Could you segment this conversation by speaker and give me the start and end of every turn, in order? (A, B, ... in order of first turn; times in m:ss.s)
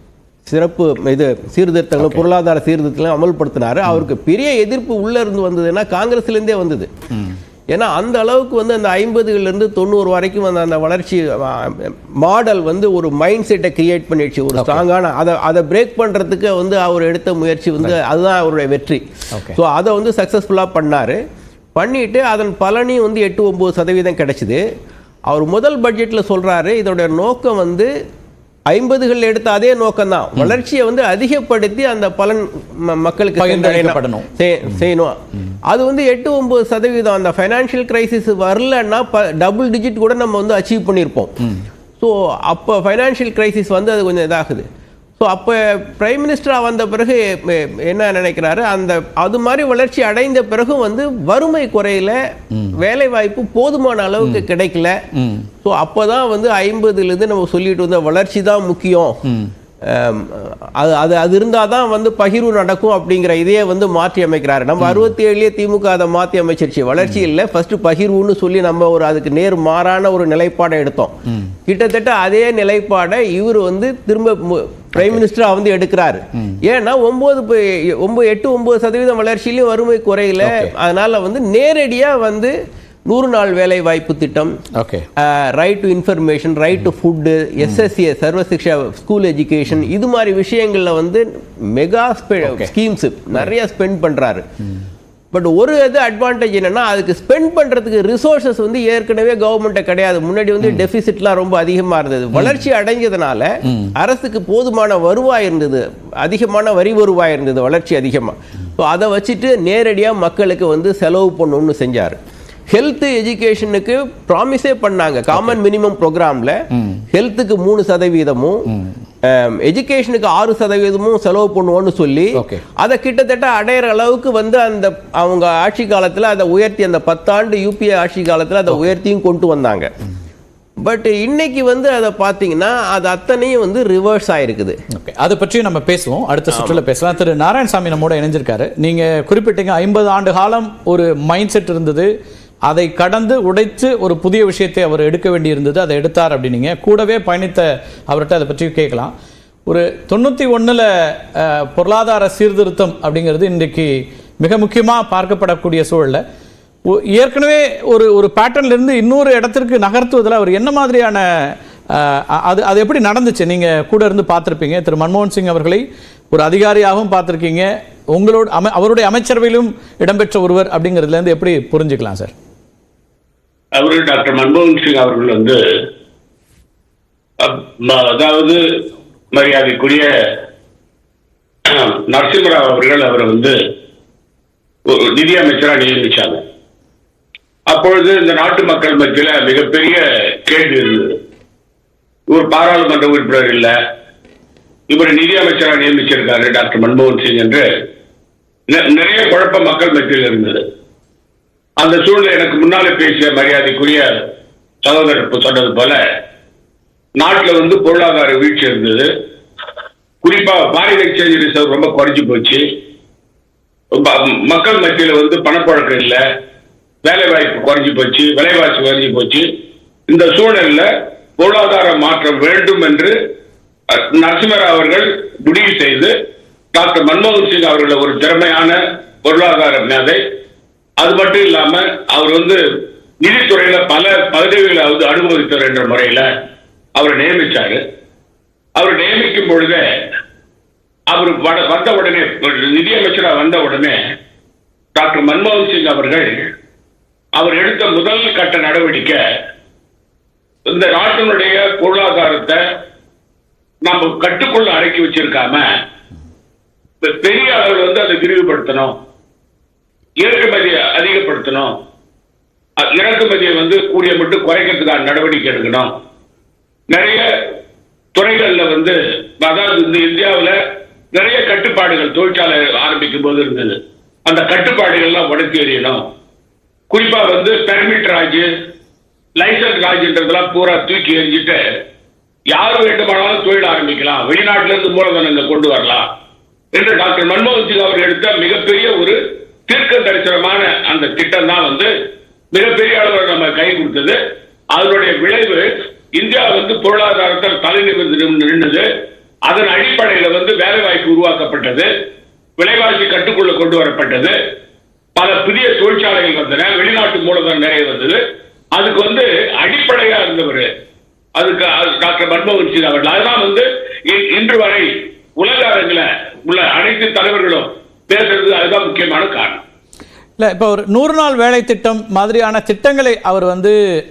0:00.4-0:06.9 A
0:07.7-0:21.2 A
0:14.6-0:14.8 B
0:21.8-0:24.6 A
0:25.3-0:27.9 A
0:28.7-0:35.2 A
0:33.4-0:34.3 B
0:35.7-0:41.3 A
0:42.0-0:44.6 A
0:45.2-0:52.2 A
0:52.7-0:55.0 A
0:55.2-0:55.4 B
0:55.6-0:59.2 A
0:59.8-1:11.1 A
1:11.6-1:22.5 A
1:20.4-1:20.7 B
1:23.1-1:24.5 A
1:24.8-1:25.0 B
1:25.2-1:34.4 A
1:32.4-1:32.7 B
1:35.3-1:52.2 A
1:52.7-1:56.6 A
1:56.7-1:57.0 B
1:57.1-1:58.7 A
1:59.2-2:09.9 A
2:02.3-2:02.6 B
2:10.8-2:14.8 A
2:14.9-2:22.1 B
2:16.5-2:16.8 A
2:22.7-2:29.1 B
2:29.7-2:36.2 B
2:37.1-2:41.2 B
2:41.9-2:52.3 B
2:53.8-2:55.6 C
2:57.4-2:58.6 C
2:59.3-3:00.1 C
3:01.6-3:03.6 C
3:04.8-3:06.4 C
3:07.7-3:11.2 C
3:12.3-3:13.8 C
3:14.9-3:17.7 C
3:18.7-3:20.6 C
3:21.8-3:24.2 C
3:24.8-3:26.0 C
3:27.2-3:29.1 C
3:30.2-3:32.6 C
3:34.0-3:36.2 C
3:37.0-3:39.5 C
3:40.1-3:43.1 C
3:43.9-3:46.1 C
3:46.7-3:50.2 C
3:51.0-3:52.6 C
3:53.2-3:56.3 C
3:57.0-3:57.8 C
3:58.8-4:00.1 C
4:01.1-4:04.0 C
4:04.9-4:06.4 C
4:07.4-4:09.2 C
4:10.7-4:12.6 C
4:13.8-4:15.7 C
4:17.0-4:19.0 C
4:20.2-4:21.8 C
4:22.8-4:25.9 C
4:26.9-4:27.3 C
4:28.1-4:30.6 C
4:31.1-4:36.1 C
4:36.9-4:38.5 C
4:39.4-4:41.6 C
4:42.5-4:46.1 C
4:46.7-4:51.9 C
4:52.5-4:54.2 C
4:54.7-4:58.9 C
4:59.5-5:01.9 C
5:02.6-5:04.4 C
5:05.2-5:08.2 C
5:08.7-5:10.7 C
5:11.4-5:19.6 C
5:20.4-5:23.8 B